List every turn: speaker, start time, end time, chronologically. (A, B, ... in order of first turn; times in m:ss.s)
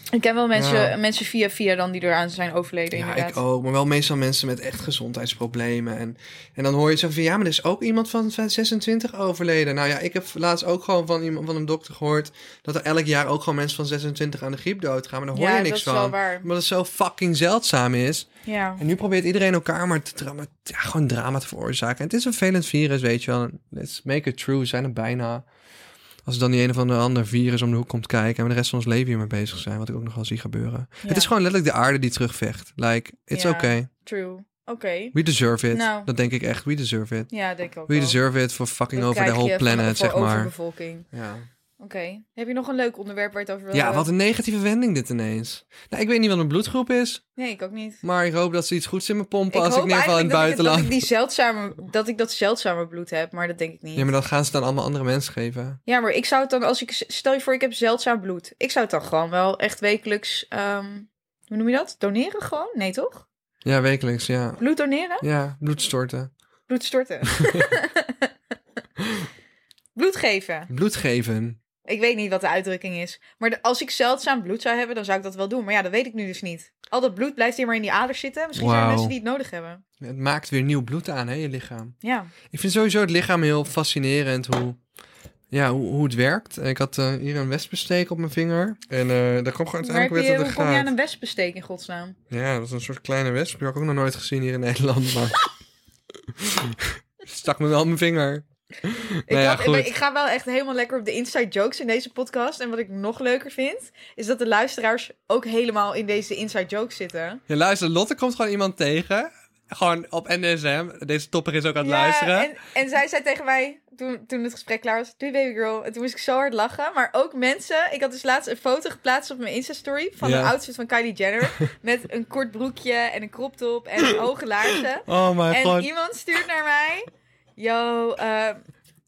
0:00.1-0:03.4 A
0:00.5-0:00.9 B
0:02.9-0:25.4 B
0:15.3-0:16.5 A
0:18.4-0:18.8 A
0:26.2-0:33.9 B
0:31.0-0:31.3 A
0:33.3-0:35.1 A
0:35.1-0:37.3 B
0:35.7-0:36.1 A
0:37.3-0:38.2 A
0:37.9-0:40.5 B
0:39.0-0:41.0 A
0:41.1-0:41.5 B
0:41.8-0:44.1 A
0:43.7-0:47.2 B
0:47.4-0:48.0 A
0:48.0-0:51.1 B
0:49.5-0:54.1 A
0:53.9-0:55.8 B
0:55.9-1:03.2 A
1:03.6-1:04.6 B
1:04.6-1:05.2 A
1:05.2-1:06.3 B
1:06.7-1:08.3 A
1:09.0-1:09.3 B
1:10.0-1:10.7 A
1:10.7-1:11.6 B
1:11.8-1:19.8 A
1:18.5-1:19.1 B
1:20.0-1:21.9 B
1:22.0-1:22.3 A
1:22.5-1:24.8 B
1:25.5-1:30.9 B
1:29.8-1:32.2 A
1:32.3-1:35.4 B
1:36.4-1:39.9 B
1:39.3-1:47.4 A
1:47.5-1:52.5 B
1:51.8-2:08.6 A
2:00.2-2:00.5 B
2:05.0-2:05.9 B